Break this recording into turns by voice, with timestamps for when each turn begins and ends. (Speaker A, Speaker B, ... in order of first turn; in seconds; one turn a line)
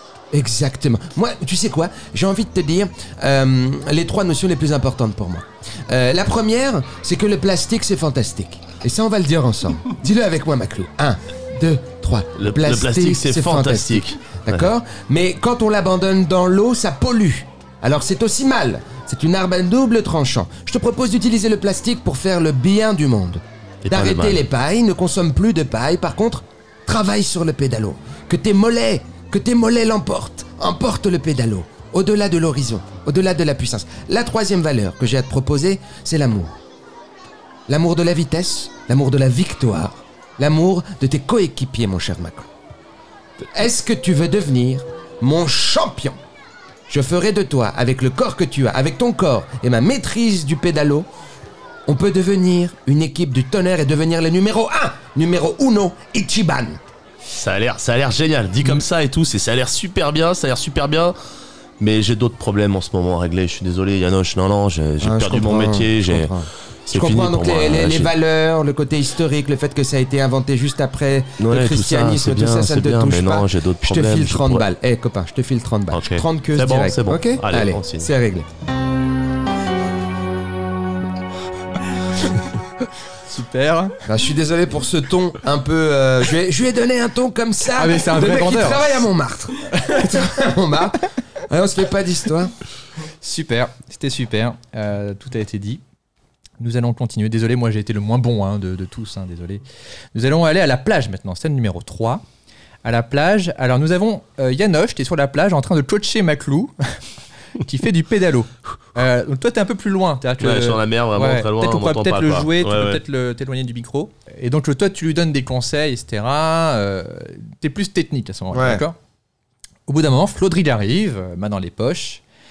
Speaker A: 0.3-36.5
Speaker B: 12.4-14.6
Speaker B: 23.8-24.4
Speaker A: 37.7-42.5
Speaker A: 43.4-46.2
Speaker A: 46.9-51.1
Speaker A: 51.9-56.8
Speaker B: 57.3-61.1
Speaker B: 61.8-66.3
Speaker A: 65.0-78.5
Speaker B: 66.9-68.1
Speaker B: 71.4-74.6
Speaker B: 75.9-78.1
Speaker C: 83.3-84.0
Speaker A: 84.0-92.5
Speaker C: 87.7-88.9
Speaker C: 93.2-95.8
Speaker C: 96.6-99.6
Speaker C: 100.1-102.2
Speaker C: 102.8-107.0
Speaker C: 107.6-119.0
Speaker B: 110.4-113.0
Speaker A: 118.5-118.8
Speaker C: 119.9-122.2